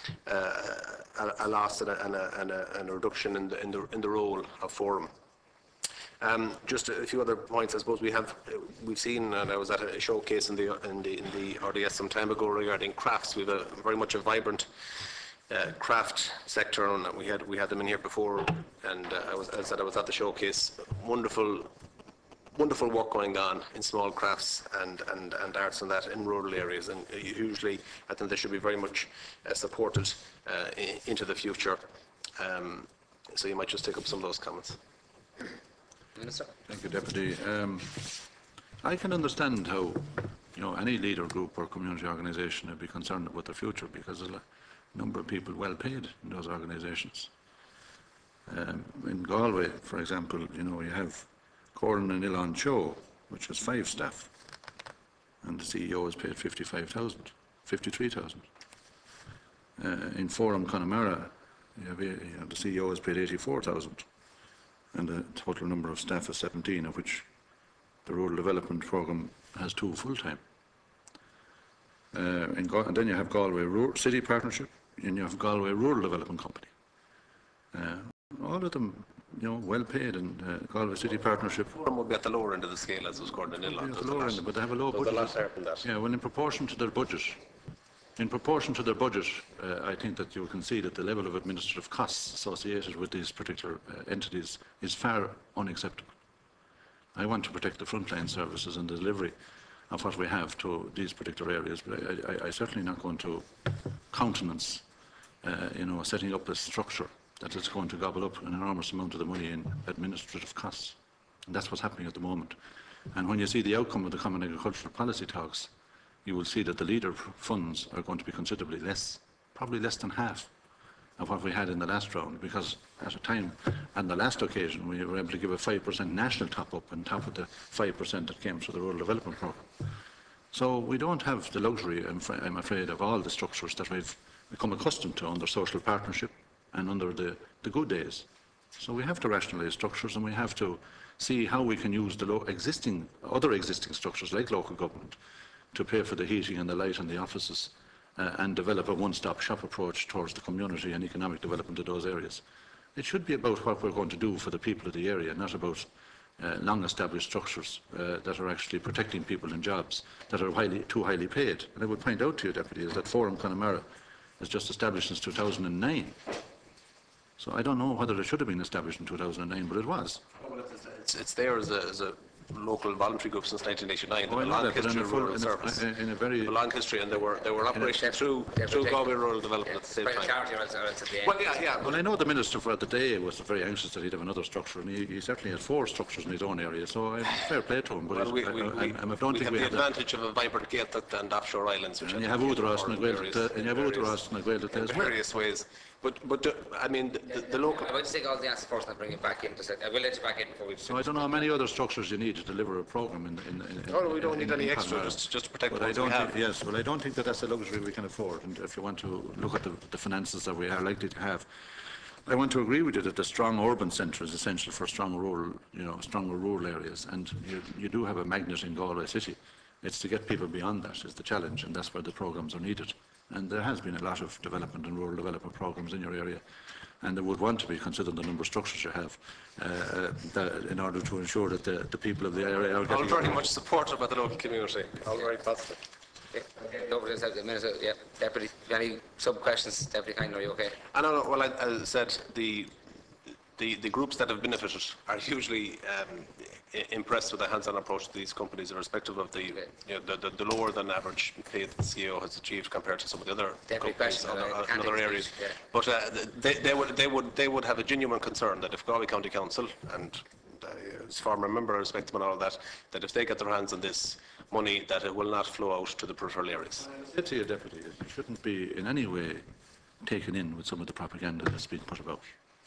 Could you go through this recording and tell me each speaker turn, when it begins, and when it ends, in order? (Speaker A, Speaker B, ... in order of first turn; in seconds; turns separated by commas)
Speaker A: 0.2-5.1, Speaker A: 6.2-21.7, Speaker A: 22.5-31.8, Speaker A: 32.4-34.8, Speaker B: 36.2-36.5, Speaker C: 36.7-38.3, Speaker C: 38.8-44.4, Speaker C: 44.9-47.3, Speaker C: 48.5-54.3, Speaker C: 55.4-58.5, Speaker C: 59.8-64.1, Speaker C: 64.9-67.3, Speaker C: 68.0-70.4, Speaker C: 72.1-76.7, Speaker C: 77.7-81.7, Speaker A: 81.1-85.9, Speaker C: 83.5-87.4, Speaker C: 88.2-96.1, Speaker C: 97.2-99.3, Speaker C: 99.9-104.8, Speaker C: 105.4-112.6, Speaker C: 113.1-115.7, Speaker C: 116.2-120.5, Speaker C: 121.2-130.0, Speaker C: 130.5-145.2, Speaker C: 145.7-152.4, Speaker C: 152.9-163.8, Speaker C: 164.4-166.4, Speaker C: 167.4-170.2, Speaker A: 170.4-180.5, Speaker C: 174.3-176.6, Speaker B: 178.0-181.5, Speaker A: 181.2-182.0, Speaker C: 181.8-189.9, Speaker A: 188.1-198.0, Speaker C: 192.0-195.1, Speaker B: 197.6-201.3, Speaker C: 200.9-211.5, Speaker A: 203.9-206.4, Speaker C: 212.3-226.4, Speaker C: 227.0-233.4, Speaker A: 232.9-235.8, Speaker B: 236.3-240.8, Speaker A: 240.9-242.7, Speaker A: 243.6-266.9, Speaker B: 253.7-255.6, Speaker C: 266.9-269.4, Speaker C: 270.0-272.2